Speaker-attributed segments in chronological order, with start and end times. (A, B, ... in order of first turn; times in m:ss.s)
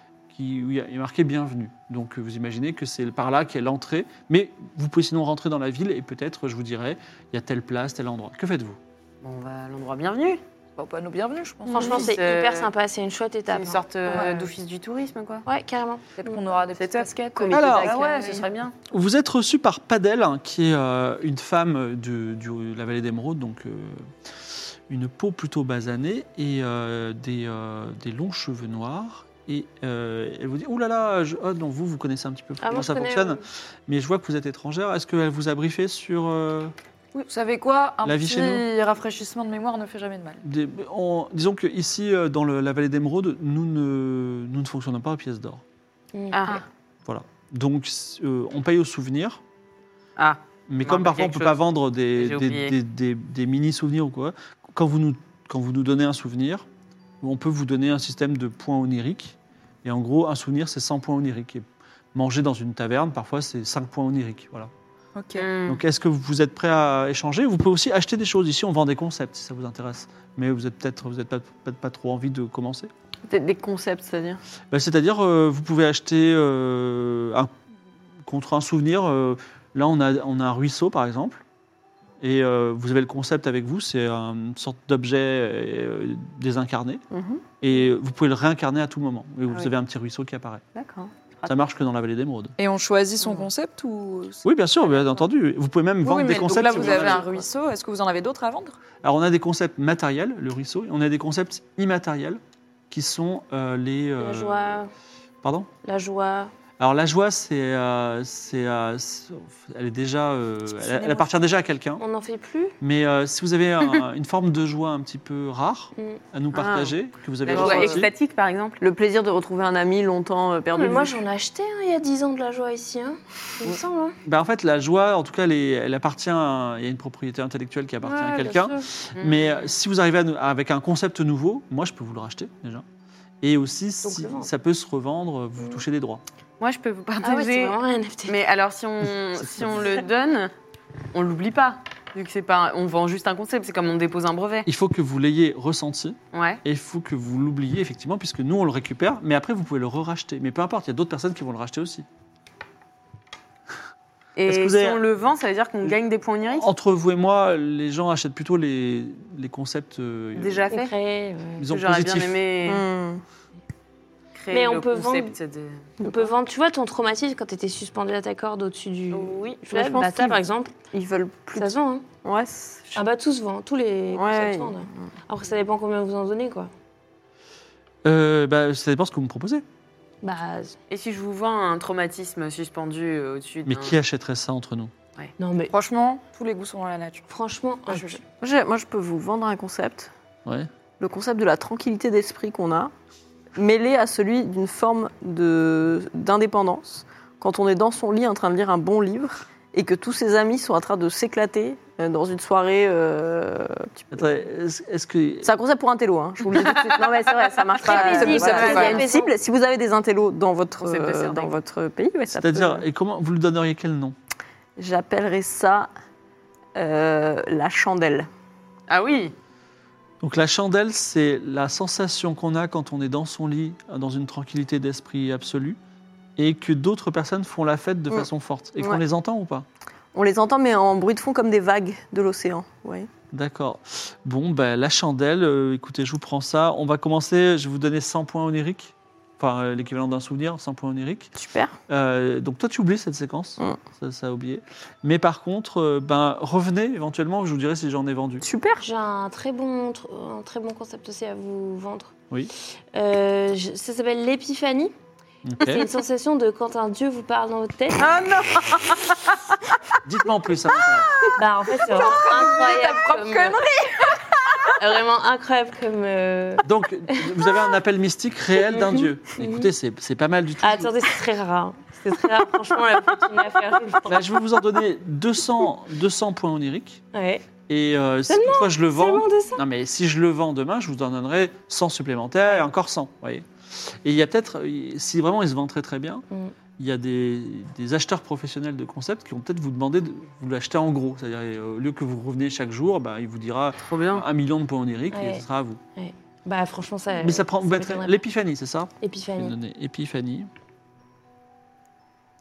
0:00.3-0:08.8 A
0:09.2-0:10.4 B
0:10.8-0:12.0 C
0:11.7-0:12.7 B
0:11.7-0:14.2 D
0:13.5-0:15.4 B
0:14.1-0:14.5 C
0:15.4-0:16.1 D
0:16.2-0:18.4 C
0:16.7-0:18.7 B
0:17.4-0:18.0 E
0:17.5-0:17.9 A
0:18.9-0:24.1 A
0:24.9-0:36.7 A
0:32.6-0:33.4 D
0:37.1-0:40.4 C
0:38.0-0:38.6 A
0:40.4-0:45.6 A
0:46.1-0:46.4 D
0:46.3-0:46.6 B
0:47.0-0:49.4 A
0:50.2-0:51.5 B
0:50.7-0:56.6 A
0:52.1-0:52.7 B
0:57.2-1:04.7 A
1:05.1-1:05.5 C
1:05.4-1:05.8 B
1:05.6-1:12.9 A
1:13.3-1:14.4 E
1:14.7-1:17.5 A
1:18.2-1:21.4 A
1:22.2-1:27.0 A
1:27.1-1:27.4 E
1:27.6-1:30.6 A
1:30.7-1:31.5 E
1:31.5-1:32.5 A
1:32.6-1:34.4 C
1:34.4-1:37.2 A
1:36.0-1:38.8 C
1:36.7-1:37.2 E
1:39.0-1:42.4 A
1:42.9-1:44.8 A
1:44.2-1:44.9 D
1:45.4-1:45.7 A
1:45.8-1:46.5 D
1:46.8-1:52.0 A
1:50.7-1:51.3 C
1:52.0-1:52.8 D
1:52.8-1:58.1 A
1:56.5-1:56.9 E
1:57.4-1:58.8 B
1:57.5-1:58.1 E
1:58.8-2:01.2 E
2:00.8-2:04.2 D
2:04.2-2:12.8 A
2:08.0-2:08.9 D
2:09.1-2:09.7 B
2:13.4-2:16.2 A
2:14.0-2:14.5 D
2:16.6-2:20.5 B
2:17.2-2:18.4 D
2:19.4-2:19.8 A
2:21.1-2:24.7 B
2:24.6-2:32.0 A
2:26.3-2:26.6 B
2:34.4-2:36.7 B
2:34.4-2:35.0 A
2:35.8-2:40.6 A
2:40.4-2:40.9 B
2:40.7-2:41.6 D
2:41.6-2:42.4 A
2:41.7-2:42.8 B
2:42.6-2:43.2 E
2:44.3-2:45.9 B
2:44.5-2:45.3 D
2:46.0-2:46.3 E
2:46.0-2:50.7 D
2:49.1-2:49.5 B
2:49.6-2:53.0 E
2:51.6-2:52.0 D
2:52.9-2:56.7 D
2:54.1-2:55.1 E
2:58.0-2:59.6 A
3:00.2-3:00.8 D
3:00.9-3:04.0 B
3:03.6-3:04.9 A
3:05.4-3:05.7 D
3:05.7-3:07.3 C
3:07.3-3:08.2 D
3:07.9-3:08.2 C
3:08.4-3:10.1 E
3:11.0-3:12.9 E
3:13.6-3:24.4 E
3:24.1-3:25.5 A
3:25.4-3:32.8 E
3:26.6-3:29.1 B
3:27.8-3:29.3 D
3:27.9-3:29.1 C
3:30.8-3:31.5 B
3:32.3-3:34.2 A
3:34.8-3:35.9 E
3:36.8-3:38.3 E
3:38.9-3:39.3 B
3:40.2-3:45.8 A
3:46.4-3:49.6 A
3:48.1-3:49.0 E
3:50.1-3:53.1 E
3:53.3-4:01.3 A
4:01.4-4:01.8 E
4:01.9-4:08.4 A
4:08.4-4:08.8 E
4:08.8-4:12.1 D
4:12.9-4:14.9 D
4:15.4-4:15.8 A
4:15.6-4:18.1 D
4:18.0-4:18.8 E
4:18.1-4:18.8 B
4:20.0-4:21.3 A
4:21.3-4:23.6 D
4:21.9-4:24.2 C
4:24.7-4:27.4 D
4:26.6-4:30.9 A
4:28.7-4:29.7 D
4:30.6-4:34.4 D
4:34.1-4:37.0 A
4:37.1-4:37.4 D
4:37.7-4:46.2 A
4:38.3-4:39.6 D
4:46.8-4:55.8 A
4:53.8-4:54.2 B
4:55.1-4:55.4 D
4:56.0-4:58.2 D
4:57.1-5:00.5 A
4:59.0-4:59.6 D